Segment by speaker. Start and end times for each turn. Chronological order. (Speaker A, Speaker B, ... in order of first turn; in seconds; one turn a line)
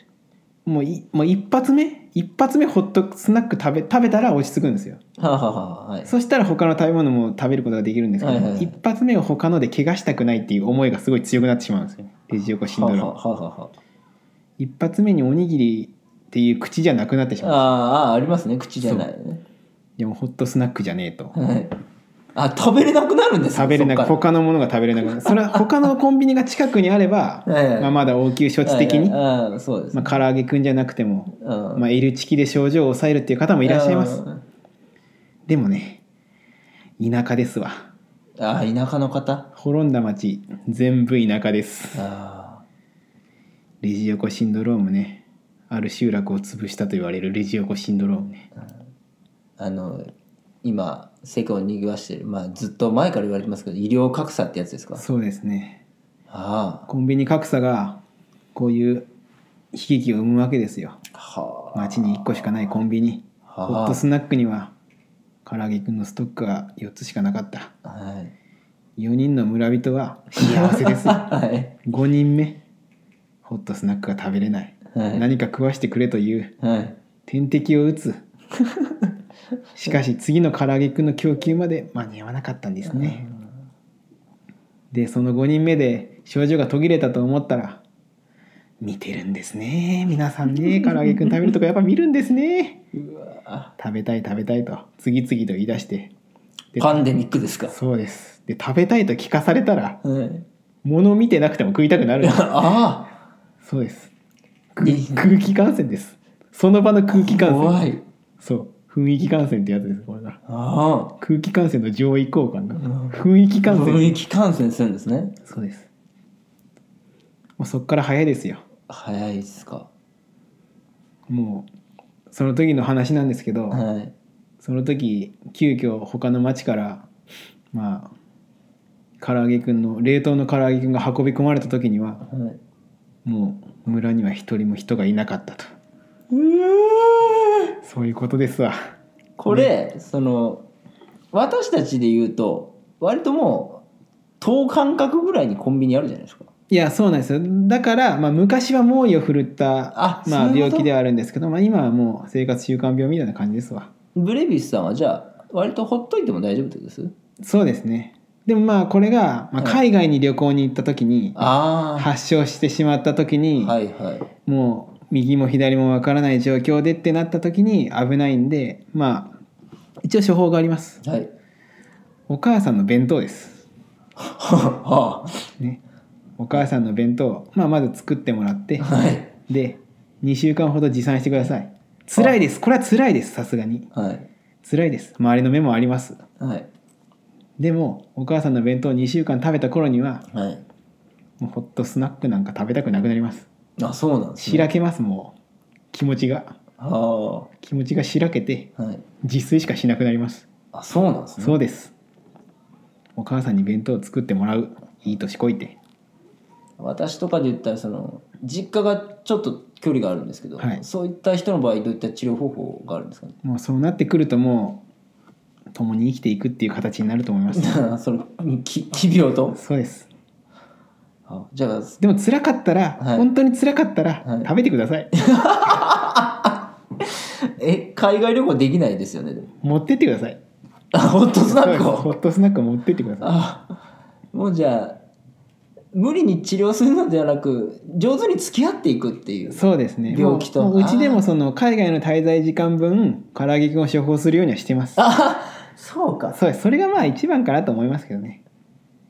Speaker A: 0.7-5.0
Speaker B: 5.2-6.1
Speaker A: 6.0-13.1
Speaker B: 8.2-8.8
Speaker B: 12.7-13.7
Speaker A: 14.6-17.8
Speaker B: 17.4-19.4
Speaker A: 18.8-19.1
Speaker A: 20.0-21.4
Speaker B: 21.3-21.7
Speaker B: 22.4-24.2
Speaker A: 23.6-29.2
Speaker B: 25.1-25.6
Speaker B: 27.5-28.1
Speaker B: 28.6-30.2
Speaker A: 29.9-34.2
Speaker B: 31.4-31.9
Speaker B: 33.6-34.4
Speaker A: 35.5-36.0
Speaker A: 37.0-37.9
Speaker B: 38.4-39.5
Speaker A: 39.6-42.1
Speaker B: 42.0-42.6
Speaker A: 43.8-48.5
Speaker B: 49.6-50.1
Speaker B: 50.6-55.0
Speaker A: 55.0-55.8
Speaker B: 56.3-56.9
Speaker A: 56.9-58.0
Speaker A: 58.5-59.1
Speaker A: 59.7-61.0
Speaker B: 61.1-62.5
Speaker A: 61.7-64.7
Speaker B: 63.5-64.0
Speaker A: 65.5-67.7
Speaker B: 67.8-68.3
Speaker A: 69.0-71.3
Speaker B: 70.4-71.7
Speaker A: 71.8-72.6
Speaker A: 73.4-76.5
Speaker B: 74.9-75.2
Speaker B: 76.6-77.0
Speaker A: 77.3-78.2
Speaker A: 79.8-83.2
Speaker B: 82.8-83.5
Speaker A: 84.9-87.8
Speaker A: 88.8-92.8
Speaker B: 90.5-91.5
Speaker B: 92.9-93.7
Speaker A: 93.8-96.1
Speaker A: 96.8-97.1
Speaker B: 96.8-97.7
Speaker A: 97.7-100.0
Speaker B: 100.0-100.5
Speaker A: 100.8-102.7
Speaker B: 102.2-103.1
Speaker A: 103.6-104.1
Speaker A: 104.8-110.4
Speaker B: 104.8-105.3
Speaker B: 107.1-108.0
Speaker B: 110.5-111.2
Speaker A: 111.2-114.2
Speaker B: 112.8-115.3
Speaker A: 115.4-115.9
Speaker A: 117.6-118.6
Speaker B: 118.9-119.9
Speaker A: 121.3-121.7
Speaker A: 122.3-123.8
Speaker B: 123.7-124.1
Speaker A: 124.6-127.1
Speaker A: 127.7-128.1
Speaker A: 129.2-132.2
Speaker B: 132.3-132.6
Speaker A: 133.2-135.7
Speaker B: 136.3-137.7
Speaker A: 137.8-138.8
Speaker B: 139.4-140.7
Speaker B: 141.3-143.8
Speaker B: 144.4-146.5
Speaker A: 146.7-153.9
Speaker B: 149.9-150.9
Speaker B: 154.2-157.1
Speaker A: 157.4-163.8
Speaker B: 161.4-162.1
Speaker B: 163.6-164.3
Speaker A: 164.5-169.3
Speaker A: 170.0-171.0
Speaker B: 171.0-171.3
Speaker A: 172.3-173.6
Speaker B: 174.2-175.4
Speaker A: 176.4-178.9
Speaker B: 178.8-179.3
Speaker A: 179.5-183.9
Speaker B: 183.9-184.3
Speaker A: 184.6-186.2
Speaker B: 186.4-186.7
Speaker A: 187.6-190.2
Speaker B: 190.3-190.6
Speaker A: 191.4-193.5
Speaker B: 193.8-194.7
Speaker A: 194.4-195.3
Speaker A: 195.9-196.6
Speaker B: 196.8-197.5
Speaker A: 197.6-198.7
Speaker B: 198.8-199.0
Speaker A: 199.2-200.5
Speaker B: 200.7-201.6
Speaker A: 201.4-201.9
Speaker A: 203.2-205.8
Speaker B: 206.8-213.4
Speaker A: 210.6-210.8
Speaker A: 213.4-214.8
Speaker A: 215.7-217.8
Speaker B: 217.5-219.6
Speaker A: 219.6-220.1
Speaker B: 221.3-222.0
Speaker A: 222.0-225.1
Speaker B: 223.0-223.3
Speaker B: 224.2-224.5
Speaker B: 225.2-229.5
Speaker A: 229.6-230.4
Speaker B: 230.9-232.2
Speaker A: 231.4-233.3
Speaker B: 233.2-233.8
Speaker B: 234.3-235.0
Speaker B: 235.9-241.2
Speaker A: 239.5-245.0
Speaker B: 245.0-246.4
Speaker A: 246.3-248.4